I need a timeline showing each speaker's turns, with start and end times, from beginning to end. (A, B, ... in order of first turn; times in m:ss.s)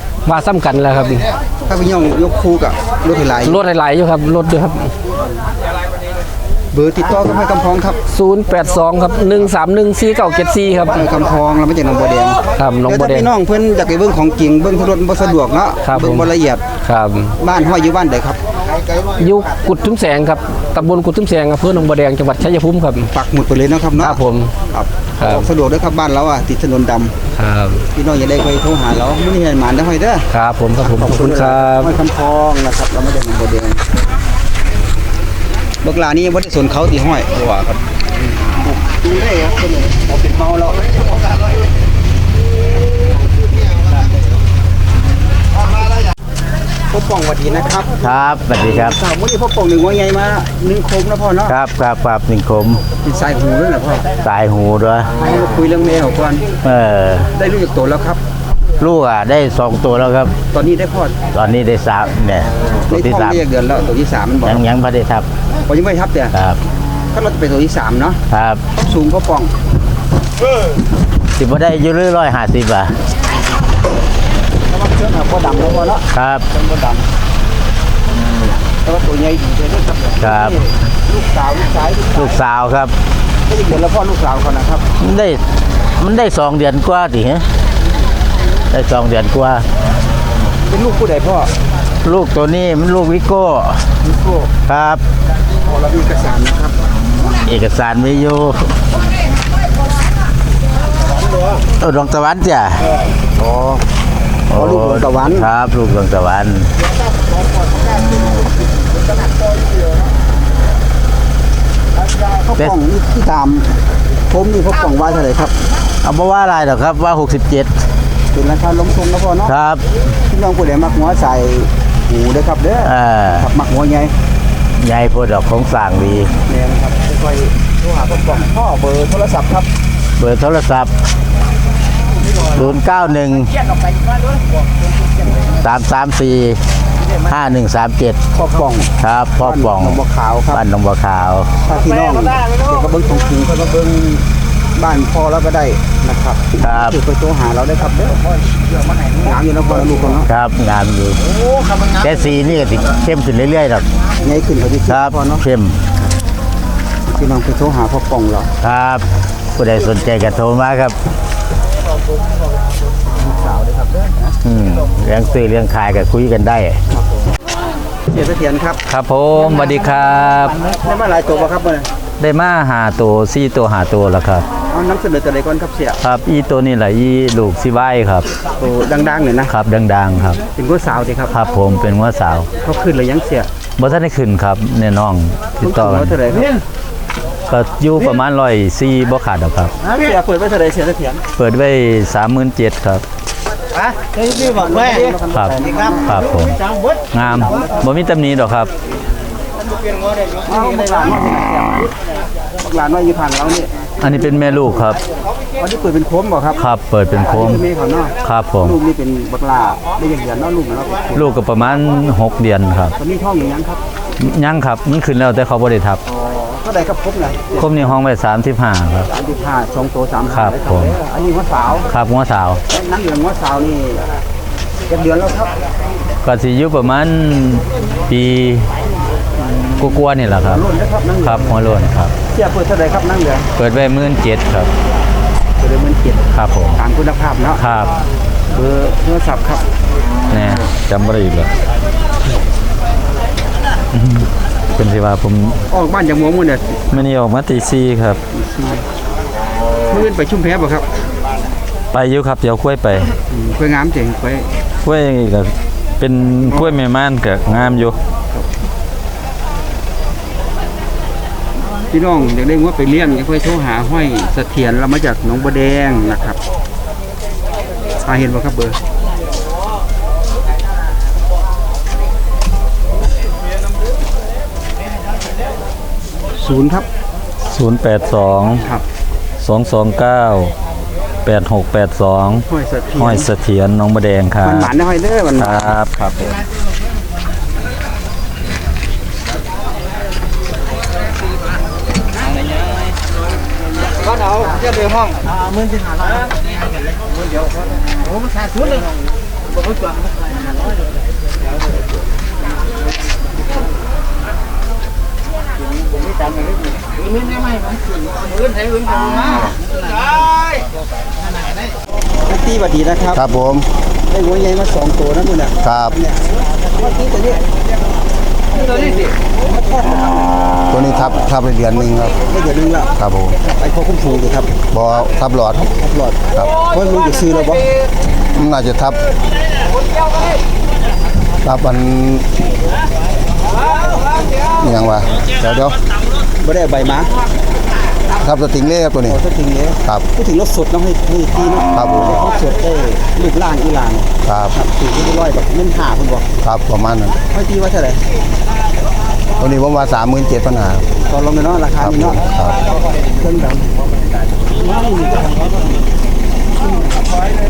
0:00.3-0:01.3 A
0:01.7-0:03.6 B
0:03.4-0:04.9 A
0:06.7-0:08.0 B
0:08.1-0:11.0 A
0:10.9-0:16.6 B
0:12.6-0:13.3 A
0:15.8-0:16.3 A
0:16.8-0:17.3 A
0:17.4-0:18.4 B
0:19.1-0:23.1 A
0:23.1-0:27.2 B
0:24.0-0:24.5 A
0:25.2-0:25.5 A
0:27.4-0:27.8 A
0:28.0-0:30.3 B
0:30.3-0:32.0 A
0:30.8-0:33.9 B
0:35.8-0:40.8 B
0:46.9-0:51.6 B
0:48.0-0:49.0 C
0:51.5-0:52.8 C
0:53.0-0:54.0 B
0:54.2-0:55.1 C
0:55.2-0:56.5 B
0:56.6-0:57.3 C
0:57.3-0:58.2 B
0:58.8-1:00.3 C
1:00.5-1:01.2 B
1:01.3-1:03.4 C
1:02.9-1:04.6 B
1:04.4-1:05.3 C
1:05.7-1:06.3 B
1:07.1-1:08.2 B
1:08.3-1:08.6 C
1:08.8-1:09.5 B
1:11.4-1:13.0 C
1:14.7-1:17.0 B
1:16.1-1:16.4 C
1:18.8-1:22.4 B
1:20.2-1:20.6 C
1:22.2-1:22.9 C
1:23.5-1:24.8 B
1:25.0-1:25.4 C
1:26.0-1:27.5 C
1:28.7-1:29.6 C
1:30.7-1:31.5 B
1:32.0-1:33.8 C
1:34.0-1:34.5 B
1:34.7-1:35.0 C
1:35.7-1:36.8 B
1:37.5-1:38.7 C
1:41.8-1:42.9 C
1:43.4-1:43.8 B
1:44.5-1:46.7 C
1:44.5-1:45.5 B
1:52.3-1:53.7 B
1:54.3-1:55.5 B
1:56.0-1:57.7 C
1:58.3-1:59.6 B
1:59.5-1:59.8 C
2:00.3-2:04.1 B
2:02.8-2:03.5 C
2:04.8-2:06.3 C
2:06.5-2:09.7 B
2:10.2-2:10.9 C
2:12.4-2:13.5 C
2:15.6-2:16.6 C
2:17.3-2:18.2 C
2:18.3-2:20.6 B
2:19.0-2:20.0 C
2:20.5-2:21.5 C
2:21.6-2:24.2 B
2:24.8-2:30.3 B
2:26.6-2:27.0 C
2:30.3-2:31.2 C
2:31.9-2:33.9 C
2:34.2-2:35.4 B
2:34.9-2:35.8 C
2:37.1-2:38.5 B
2:38.6-2:39.0 C
2:39.6-2:41.0 C
2:43.1-2:44.4 B
2:44.4-2:46.8 C
2:46.9-2:47.3 B
2:48.1-2:48.8 B
2:48.9-2:50.6 D
2:50.7-2:51.9 B
2:52.2-2:54.4 D
2:54.7-2:56.0 B
2:56.0-2:58.3 D
2:58.6-2:59.5 B
2:59.5-3:00.4 D
3:00.6-3:01.3 B
3:01.3-3:02.5 D
3:02.6-3:03.5 B
3:03.8-3:06.1 D
3:05.6-3:06.5 B
3:07.5-3:09.7 D
3:09.8-3:11.2 B
3:11.4-3:13.0 D
3:13.9-3:16.3 B
3:16.1-3:16.6 D
3:17.1-3:18.7 D
3:17.3-3:17.9 B
3:20.4-3:21.9 B
3:22.6-3:25.0 B
3:24.0-3:25.0 D
3:25.6-3:26.6 B
3:26.6-3:27.7 D
3:27.2-3:31.3 B
3:28.2-3:28.8 D
3:31.2-3:32.9 D
3:33.0-3:33.8 B
3:34.2-3:36.0 D
3:36.2-3:38.0 B
3:37.6-3:39.1 D
3:39.1-3:41.9 B
3:40.3-3:40.9 D
3:41.9-3:42.6 D
3:42.7-3:44.0 B
3:44.9-3:45.6 B
3:46.2-3:48.7 D
3:49.4-3:51.7 B
3:49.8-3:50.6 D
3:51.2-3:52.1 D
3:52.3-3:53.5 B
3:53.6-3:54.7 D
3:55.6-3:57.6 B
3:56.3-3:56.8 D
3:57.6-3:57.9 D
3:58.5-3:59.6 B
4:00.3-4:01.5 D
4:03.9-4:05.6 D
4:05.7-4:06.8 B
4:06.9-4:08.2 D
4:08.3-4:08.8 B
4:09.9-4:10.8 B
4:11.9-4:13.1 D
4:13.3-4:14.5 B
4:14.8-4:18.0 D
4:21.9-4:26.4 B
4:28.0-4:28.8 B
4:36.4-4:36.9 B
4:37.5-4:38.6 D
4:38.6-4:38.8 B
4:39.4-4:40.5 D
4:41.3-4:42.4 D
4:42.5-4:43.3 B
4:43.0-4:44.7 D
4:44.4-4:45.7 B
4:45.4-4:46.2 D
5:12.3-5:13.2 B
5:13.1-5:13.7 E
5:14.1-5:17.4 B
5:15.6-5:16.0 E
5:18.5-5:20.2 B
5:20.7-5:22.2 E
5:22.2-5:24.5 B
5:23.0-5:23.4 E
5:24.7-5:25.6 E
5:25.6-5:27.6 B
5:28.4-5:29.0 E
5:31.4-5:32.3 E
5:34.6-5:35.8 E
5:36.4-5:37.1 B
5:38.2-5:39.2 E
5:39.1-5:46.3 B
5:41.7-5:42.2 E
5:44.2-5:44.6 E
5:46.4-5:47.2 E
5:47.3-5:48.0 B
5:49.4-5:50.9 E
5:51.1-5:52.2 B
5:51.8-5:52.6 E
5:53.2-5:53.7 B
5:54.6-5:55.9 B
5:56.6-5:56.9 B